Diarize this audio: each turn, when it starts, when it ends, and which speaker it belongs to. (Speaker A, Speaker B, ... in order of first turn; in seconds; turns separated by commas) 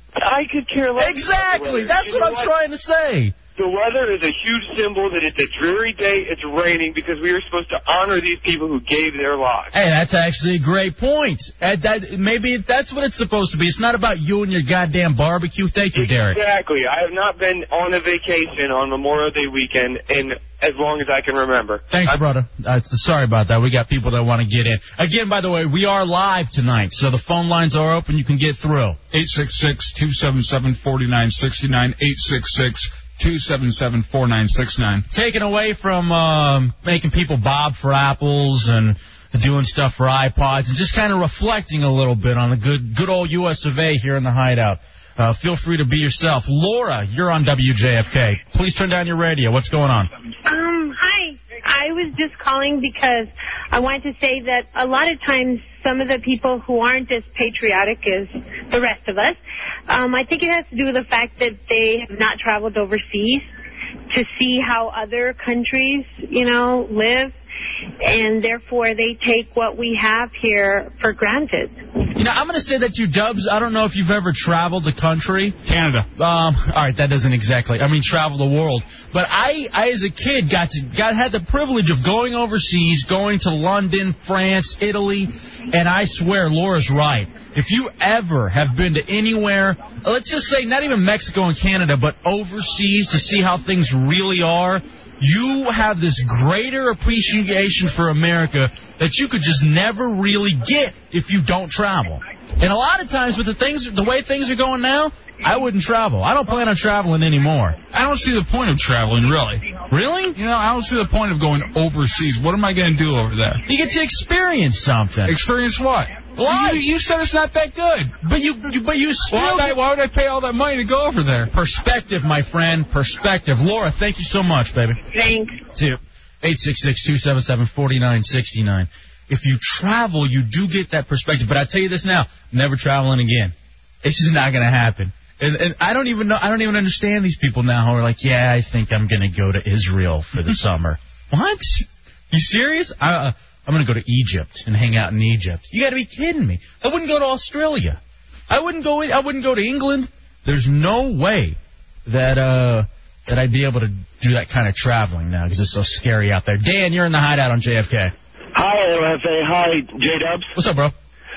Speaker A: 0.2-2.5, Speaker B: 1.0-3.3, Speaker A: 3.5-9.7, Speaker B: 9.7-16.4, Speaker A: 15.9-22.2, Speaker B: 21.9-29.0, Speaker C: 29.1-35.1, Speaker B: 35.1-50.1, Speaker D: 50.4-63.5, Speaker D: 64.1-67.3, Speaker D: 68.0-71.7, Speaker B: 72.1-75.6, Speaker C: 75.6-76.1, Speaker B: 76.2-107.8, Speaker C: 107.9-109.7, Speaker B: 109.9-110.4, Speaker C: 110.3-113.6, Speaker B: 113.7-115.3, Speaker C: 115.2-118.1, Speaker B: 116.3-116.8, Speaker B: 118.2-119.8, Speaker C: 119.3-121.5, Speaker B: 121.5-125.0, Speaker D: 125.1-125.6, Speaker B: 125.7-158.1, Speaker E: 158.5-160.5, Speaker B: 160.5-160.9